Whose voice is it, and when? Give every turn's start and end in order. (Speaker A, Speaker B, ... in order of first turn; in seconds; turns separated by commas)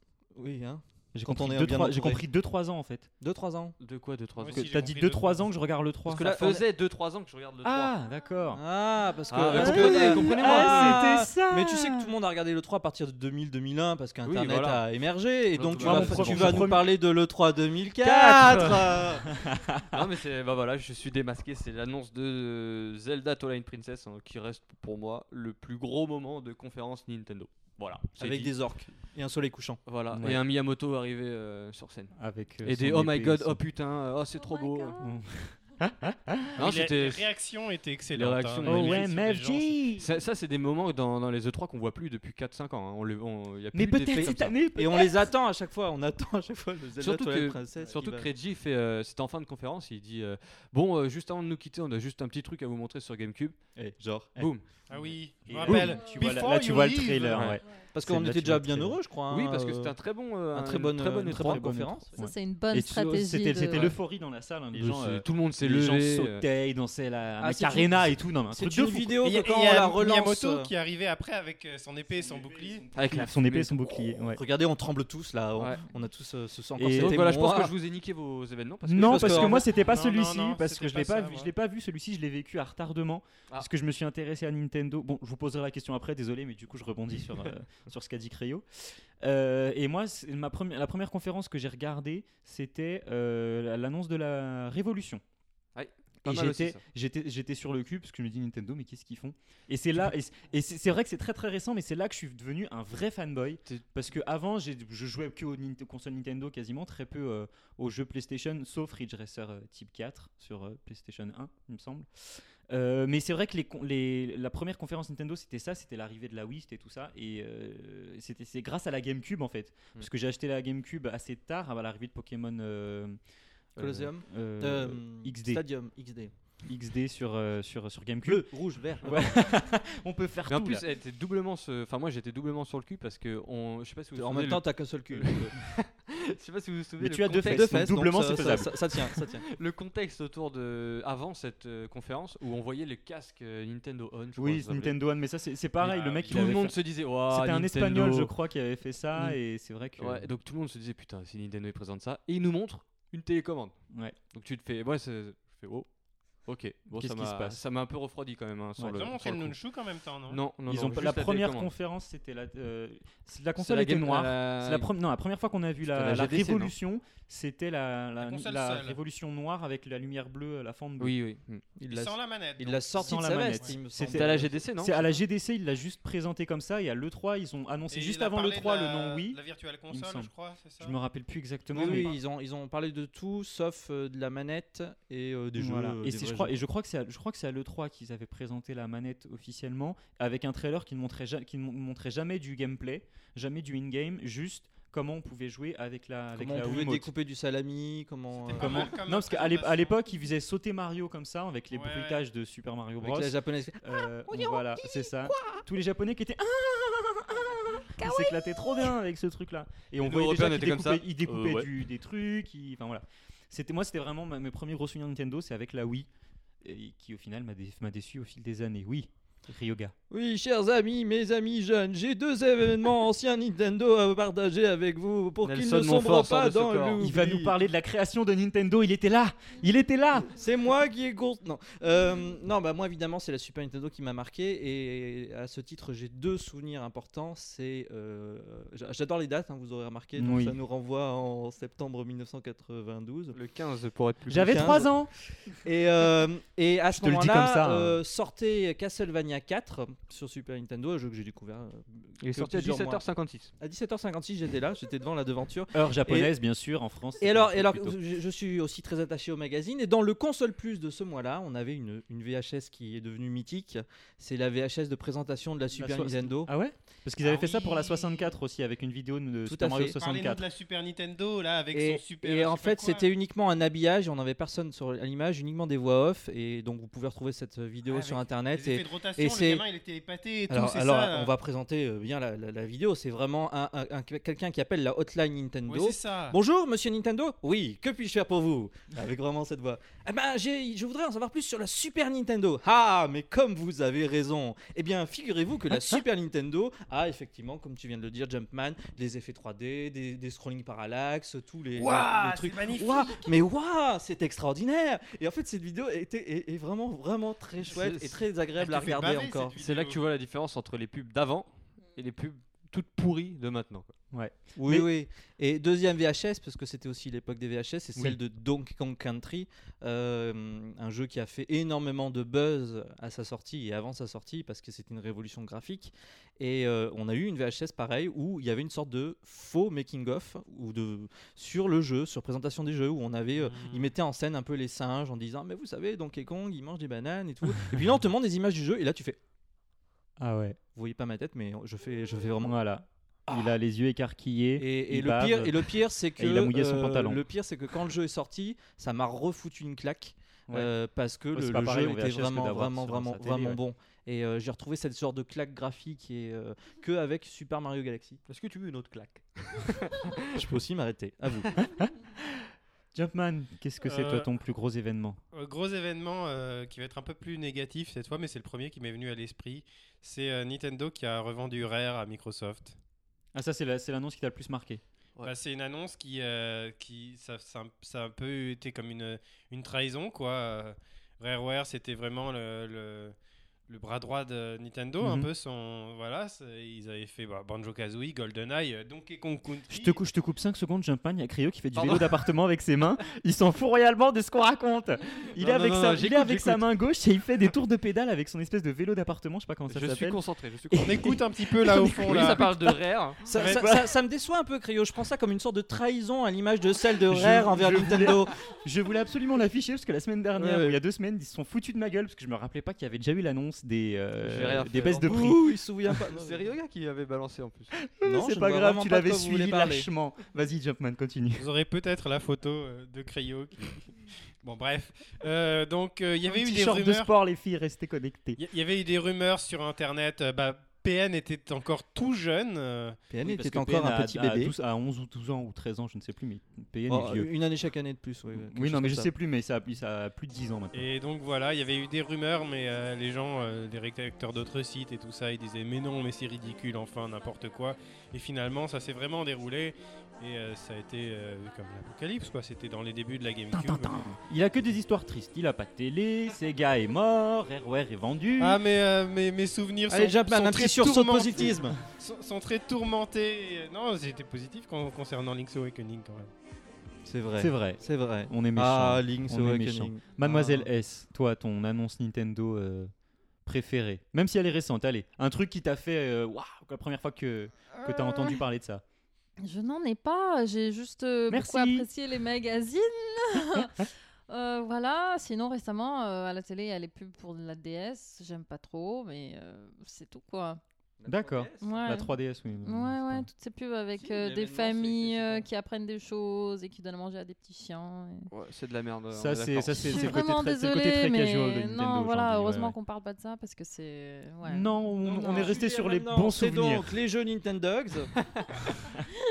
Speaker A: 0.3-2.2, Speaker B: 1.1-3.1, Speaker A: 3.2-3.8, Speaker C: 3.8-4.8, Speaker D: 4.4-5.4, Speaker B: 4.5-6.3, Speaker A: 6.1-6.6, Speaker C: 6.1-7.9, Speaker B: 7.6-8.6, Speaker A: 8.5-19.3, Speaker C: 9.3-11.1, Speaker B: 9.4-12.1, Speaker C: 14.2-14.8, Speaker C: 15.5-16.7, Speaker B: 15.8-16.9, Speaker C: 18.0-19.2, Speaker B: 19.3-20.0, Speaker C: 19.9-28.5, Speaker A: 28.2-29.8, Speaker C: 29.9-35.0, Speaker B: 30.1-30.4, Speaker B: 32.1-33.6, Speaker E: 34.4-35.1, Speaker B: 35.0-36.6, Speaker C: 36.6-37.3, Speaker D: 36.6-39.8, Speaker C: 38.1-39.0, Speaker B: 38.6-40.1, Speaker C: 40.0-44.5, Speaker B: 43.7-45.3, Speaker A: 44.1-48.3, Speaker C: 47.0-53.6, Speaker A: 53.8-54.4, Speaker C: 54.4-55.1, Speaker D: 54.9-57.6, Speaker B: 55.5-59.0, Speaker C: 57.3-57.6, Speaker A: 57.9-60.0, Speaker C: 59.3-61.6, Speaker A: 60.5-62.1, Speaker B: 61.4-69.1, Speaker E: 62.1-63.9, Speaker C: 63.7-64.0, Speaker C: 64.7-66.4, Speaker A: 67.4-70.7, Speaker D: 69.2-72.9, Speaker B: 72.1-74.4, Speaker C: 72.9-73.8, Speaker A: 74.2-77.7, Speaker C: 75.6-75.8, Speaker B: 76.8-77.2, Speaker C: 76.9-79.6, Speaker B: 78.9-95.2, Speaker A: 79.0-79.7, Speaker D: 79.7-81.5, Speaker C: 95.7-96.8, Speaker B: 96.2-123.2, Speaker B: 123.7-125.6, Speaker A: 123.8-126.3, Speaker B: 126.6-130.8, Speaker A: 128.2-129.5, Speaker C: 130.5-137.8, Speaker A: 134.2-135.6, Speaker B: 137.0-138.8, Speaker A: 137.4-139.4, Speaker C: 139.2-145.0, Speaker B: 144.4-150.3, Speaker C: 145.8-148.3, Speaker D: 146.0-146.3, Speaker C: 150.0-155.9, Speaker C: 156.4-159.6, Speaker B: 156.9-157.6, Speaker D: 158.9-160.4, Speaker C: 160.3-161.7, Speaker B: 160.7-171.1, Speaker C: 163.6-164.9, Speaker C: 165.8-166.7, Speaker D: 168.2-169.0, Speaker C: 171.0-171.6, Speaker A: 171.8-174.6, Speaker D: 171.9-173.7, Speaker B: 173.0-179.4, Speaker C: 174.1-175.2, Speaker D: 177.9-180.9, Speaker B: 179.9-182.2, Speaker A: 181.7-186.6, Speaker D: 181.8-182.1, Speaker B: 185.6-197.1, Speaker A: 196.3-198.9, Speaker D: 198.3-199.9, Speaker B: 198.6-216.1, Speaker D: 201.7-202.2, Speaker A: 203.0-205.6, Speaker A: 208.0-208.3, Speaker C: 210.0-211.7, Speaker B: 216.6-219.9, Speaker A: 220.1-227.5, Speaker C: 225.4-227.1, Speaker B: 227.0-230.3, Speaker A: 230.2-243.4, Speaker B: 240.2-240.6, Speaker C: 243.3-244.9, Speaker B: 244.3-245.1, Speaker A: 244.3-244.9, Speaker A: 245.6-253.0, Speaker B: 246.9-248.0, Speaker C: 252.2-253.5, Speaker A: 253.6-256.3, Speaker B: 255.7-258.0, Speaker A: 257.2-266.5, Speaker B: 265.8-270.4, Speaker D: 267.2-268.2, Speaker A: 269.4-270.0, Speaker D: 269.9-273.0, Speaker A: 271.7-279.6, Speaker D: 277.9-281.3, Speaker A: 280.5-309.5, Speaker D: 285.7-286.4, Speaker B: 295.7-296.0, Speaker D: 301.8-303.3, Speaker C: 307.6-308.2, Speaker D: 308.6-310.0, Speaker C: 309.6-313.9, Speaker B: 314.1-314.9, Speaker A: 314.6-339.2, Speaker D: 333.4-333.9, Speaker B: 340.2-340.6, Speaker A: 340.7-342.5, Speaker B: 342.4-347.2, Speaker A: 344.6-358.2, Speaker B: 351.3-353.6, Speaker C: 358.3-360.4, Speaker A: 360.3-361.6, Speaker B: 361.6-365.2, Speaker D: 363.8-364.3, Speaker D: 365.3-372.8, Speaker B: 373.3-374.8, Speaker D: 375.2-383.1, Speaker D: 383.7-389.9, Speaker B: 385.0-385.3, Speaker B: 389.7-403.9, Speaker C: 391.7-392.3, Speaker C: 395.2-396.6, Speaker C: 399.7-401.1, Speaker D: 400.8-402.5, Speaker C: 401.9-403.3, Speaker A: 403.3-408.3, Speaker D: 403.3-403.6, Speaker B: 407.0-415.5, Speaker A: 410.4-410.8, Speaker C: 414.2-415.1, Speaker A: 415.0-416.4, Speaker C: 416.1-417.8, Speaker B: 417.8-421.4, Speaker A: 418.0-419.9, Speaker D: 421.4-423.9, Speaker D: 424.4-427.1, Speaker B: 426.3-428.4, Speaker D: 428.4-433.0, Speaker A: 433.1-434.5, Speaker B: 433.2-437.3, Speaker A: 436.9-439.1, Speaker B: 438.3-440.9, Speaker D: 440.7-454.0, Speaker B: 453.5-458.6, Speaker D: 458.4-466.3, Speaker A: 459.9-461.8, Speaker A: 467.0-470.7, Speaker B: 467.4-472.9, Speaker B: 473.4-478.8, Speaker E: 477.7-478.4, Speaker E: 479.4-490.6, Speaker B: 481.3-481.9, Speaker A: 491.0-492.0, Speaker B: 491.1-493.3, Speaker E: 491.6-492.1, Speaker E: 492.6-498.3, Speaker A: 494.0-495.5, Speaker C: 498.3-500.1, Speaker B: 499.1-502.7, Speaker E: 499.8-504.7, Speaker B: 504.4-507.0, Speaker A: 505.0-508.1, Speaker C: 508.2-508.9